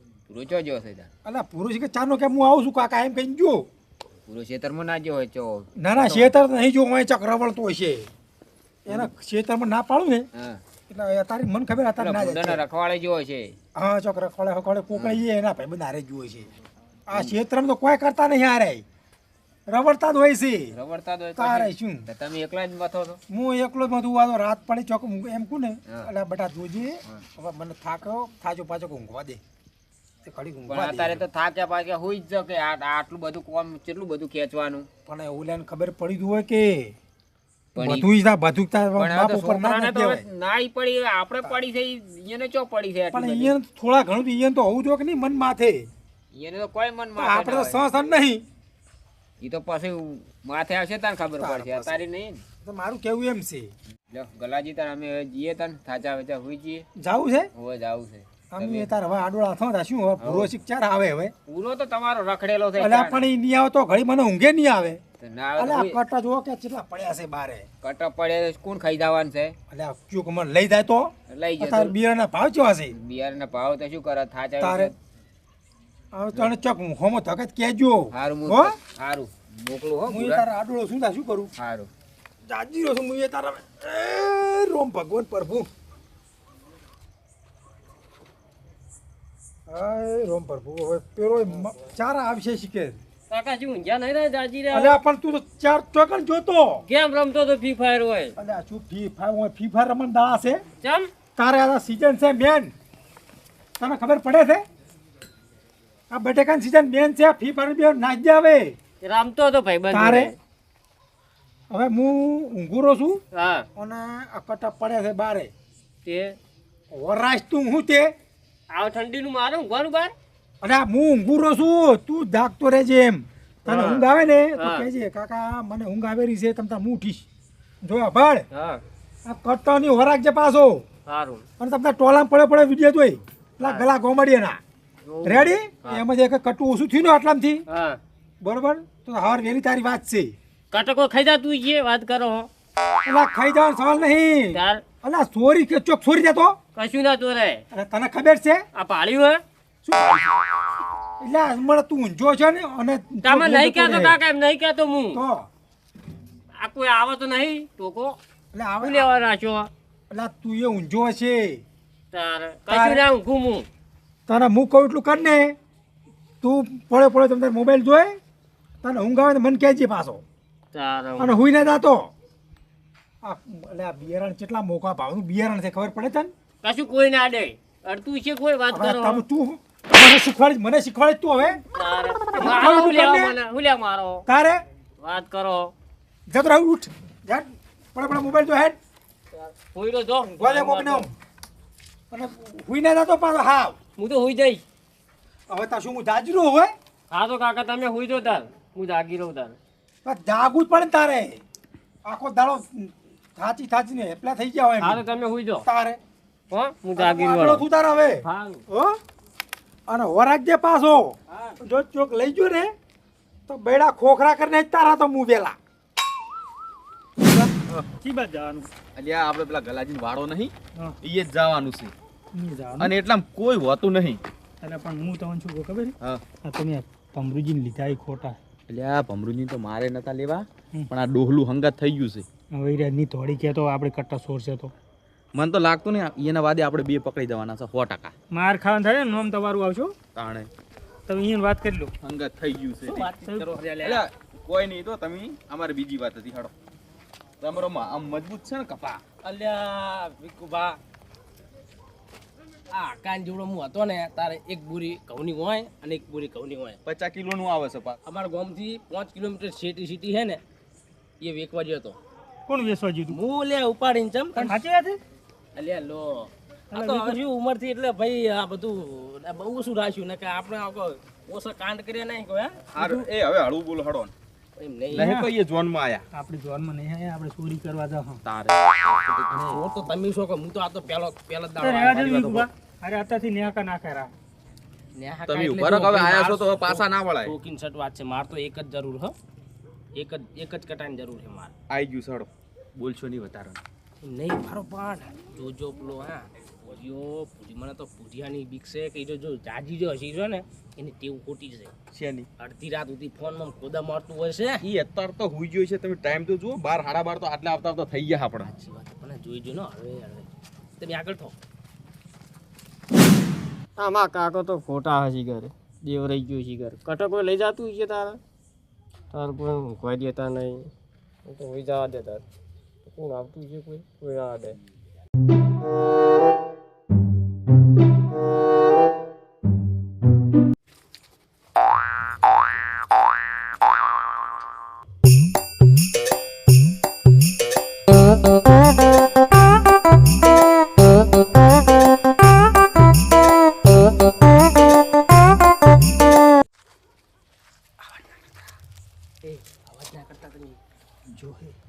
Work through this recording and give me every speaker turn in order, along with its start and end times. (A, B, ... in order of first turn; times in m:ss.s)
0:00.3-0:01.1 A
0:01.2-0:03.7 B
0:04.2-0:06.3 A
0:05.8-0:08.1 B
0:08.8-0:10.3 B
0:10.3-0:10.6 A
0:10.9-0:12.6 B
0:12.0-0:13.6 A
0:13.7-0:16.5 B
0:14.9-0:15.2 A
0:17.1-0:18.8 B
0:19.7-0:20.8 B
0:20.7-0:23.2 A
0:21.3-0:22.1 B
0:23.3-0:29.4 B
0:30.2-0:31.2 B
0:30.7-0:34.9 A
0:35.0-0:36.9 B
0:37.7-0:38.1 A
0:37.8-0:40.2 B
0:39.0-0:43.5 A
0:43.1-0:45.9 B
0:46.3-0:47.8 A
0:47.2-0:48.4 B
0:49.4-0:52.4 A
0:51.4-0:52.0 B
0:52.6-0:53.7 B
0:54.1-0:56.9 A
0:57.0-0:57.5 B
0:57.5-0:58.9 A
0:58.5-1:01.3 B
1:00.2-1:00.5 A
1:01.5-1:03.3 A
1:02.8-1:05.0 B
1:05.2-1:06.0 A
1:05.6-1:07.7 B
1:07.8-1:09.6 A
1:09.7-1:12.9 B
1:11.3-1:11.9 A
1:12.9-1:14.9 A
1:14.6-1:14.9 B
1:16.1-1:18.8 B
1:18.1-1:20.4 A
1:20.1-1:21.5 B
1:21.6-1:21.9 A
1:22.4-1:25.7 B
1:29.7-1:33.0 B
1:33.3-1:35.0 C
1:34.7-1:36.8 B
1:36.9-1:38.3 C
1:38.4-1:40.6 B
1:40.8-1:41.1 C
1:41.4-1:42.7 B
1:43.8-1:44.6 B
1:46.1-1:48.7 B
1:49.0-1:50.4 C
1:49.9-1:50.3 B
1:51.7-1:53.2 B
1:53.3-1:53.7 C
1:53.8-1:55.5 B
1:56.0-1:56.4 C
1:56.9-1:58.1 B
1:58.7-2:00.1 C
2:00.6-2:07.2 B
2:03.6-2:04.9 C
2:07.8-2:08.5 B
2:08.5-2:08.8 C
2:09.2-2:10.8 B
2:11.0-2:11.4 C
2:11.6-2:14.6 B
2:13.6-2:13.9 C
2:15.0-2:16.0 C
2:15.2-2:17.6 B
2:17.7-2:18.0 C
2:18.4-2:20.3 B
2:20.7-2:22.5 C
2:23.0-2:26.6 B
2:24.5-2:24.8 C
2:26.7-2:27.6 C
2:27.7-2:28.6 B
2:28.7-2:29.4 C
2:29.8-2:30.4 B
2:31.2-2:34.2 B
2:33.2-2:35.2 C
2:35.1-2:35.5 B
2:36.6-2:38.2 C
2:38.5-2:39.1 B
2:38.8-2:39.7 C
2:40.1-2:41.6 B
2:42.1-2:43.7 C
2:42.7-2:43.0 B
2:44.3-2:45.5 B
2:46.4-2:48.2 B
2:48.8-2:50.2 B
2:50.7-2:51.4 C
2:51.2-2:52.1 B
2:53.2-2:56.3 B
2:56.6-2:59.2 C
2:58.7-3:01.6 B
3:01.7-3:04.3 C
3:02.3-3:03.4 B
3:04.3-3:04.6 B
3:05.0-3:05.7 C
3:06.3-3:08.8 B
3:09.3-3:11.1 C
3:10.2-3:11.1 B
3:12.1-3:13.8 B
3:14.0-3:14.6 C
3:15.5-3:16.7 B
3:17.1-3:19.6 C
3:20.0-3:21.4 B
3:22.0-3:25.0 B
3:24.8-3:25.6 C
3:25.6-3:26.0 B
3:26.5-3:27.6 C
3:26.9-3:29.0 B
3:28.3-3:28.6 D
3:29.9-3:32.7 B
3:33.5-3:35.6 B
3:37.2-3:38.7 E
3:39.0-3:41.9 F
3:42.3-3:42.9 E
3:42.8-3:44.2 F
3:44.6-3:48.4 E
3:48.7-3:52.2 F
3:52.5-3:54.7 E
3:55.3-3:58.1 F
3:58.3-3:59.9 E
4:00.2-4:00.5 F
4:01.1-4:01.9 E
4:02.0-4:03.1 F
4:02.8-4:04.0 D
4:03.8-4:06.5 F
4:07.4-4:09.0 F
4:09.2-4:10.8 D
4:12.7-4:16.8 D
4:16.8-4:18.0 F
4:18.0-4:20.4 D
4:21.2-4:22.0 D
4:22.5-4:23.2 E
4:23.1-4:24.6 D
4:24.4-4:25.0 E
4:25.5-4:32.6 D
4:26.7-4:27.2 E
4:32.7-4:34.1 F
4:32.8-4:33.0 E
4:34.6-4:35.1 D
4:34.9-4:36.0 F
4:34.9-4:35.3 E
4:36.1-4:38.2 E
4:38.2-4:39.7 F
4:39.3-4:42.5 D
4:41.6-4:44.1 E
4:44.9-4:49.1 D
4:45.3-4:47.3 F
4:50.0-4:51.5 D
4:51.7-4:53.6 F
4:54.0-5:01.7 D
5:01.9-5:02.3 F
5:02.4-5:04.6 D
5:04.6-5:08.5 F
5:08.4-5:11.4 D
5:13.8-5:18.2 C
5:19.1-5:20.7 C
5:21.2-5:22.2 C
5:22.8-5:24.6 C
5:47.8-5:48.2 D
5:49.2-5:50.6 D
5:51.1-5:51.6 E